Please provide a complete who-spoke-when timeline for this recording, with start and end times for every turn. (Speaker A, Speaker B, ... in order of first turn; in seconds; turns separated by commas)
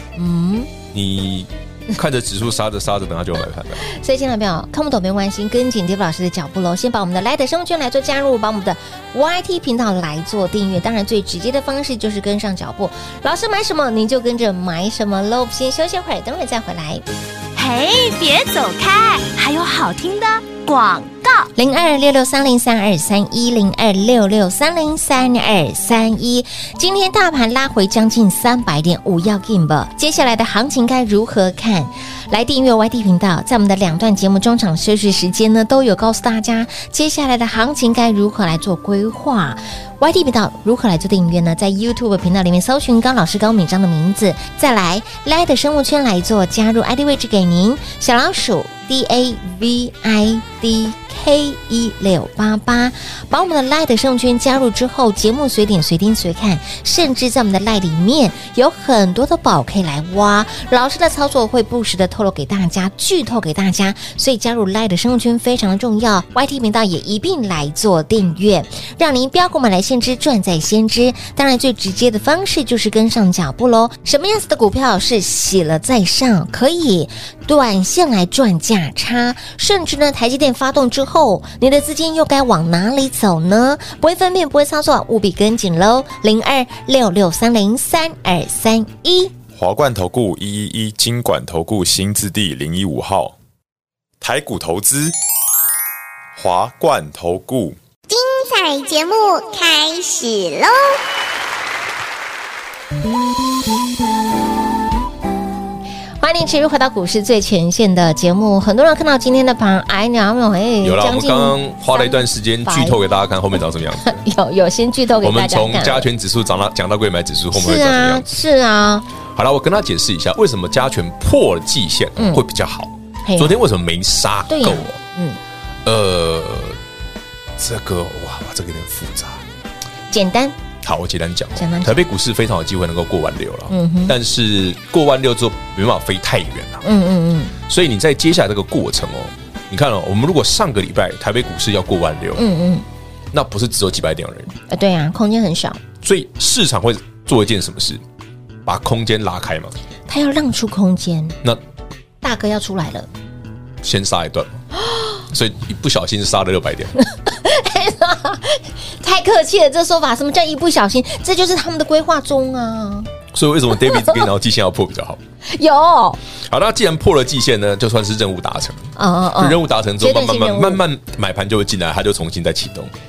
Speaker A: 0.1-0.7, Speaker B: 0.9-3.8, Speaker A: 3.8-17.0, Speaker C: 17.5-21.5, Speaker A: 21.6-89.3, Speaker D: 89.5-93.3, Speaker D: 94.2-95.1, Speaker D: 96.3-97.8, Speaker E: 98.1-101.0, Speaker A: 106.2-113.0, Speaker B: 110.8-114.2, Speaker A: 114.0-116.1, Speaker B: 115.2-118.3, Speaker A: 117.5-119.0, Speaker B: 119.3-125.0, Speaker A: 122.2-122.4, Speaker A: 123.2-123.6, Speaker A: 124.5-125.4, Speaker B: 125.8-126.8, Speaker B: 127.6-129.4, Speaker A: 130.1-130.6, Speaker B: 130.8-136.8, Speaker A: 131.6-132.0, Speaker A: 133.7-134.2, Speaker A: 136.8-137.6, Speaker B: 137.7-142.4, Speaker A: 142.3-142.8, Speaker B: 143.3-144.5, Speaker A: 144.7-145.8, Speaker B: 146.0-148.0, Speaker B: 148.6-149.7, Speaker A: 150.1-151.4, Speaker A: 152.2-153.1, Speaker B: 153.8-154.6, Speaker B: 155.3-156.9, Speaker A: 157.0-163.1, Speaker B: 163.3-165.2, Speaker A: 163.7-164.3, Speaker A: 165.4-166.2, Speaker B: 166.4-172.9, Speaker A: 168.9-170.8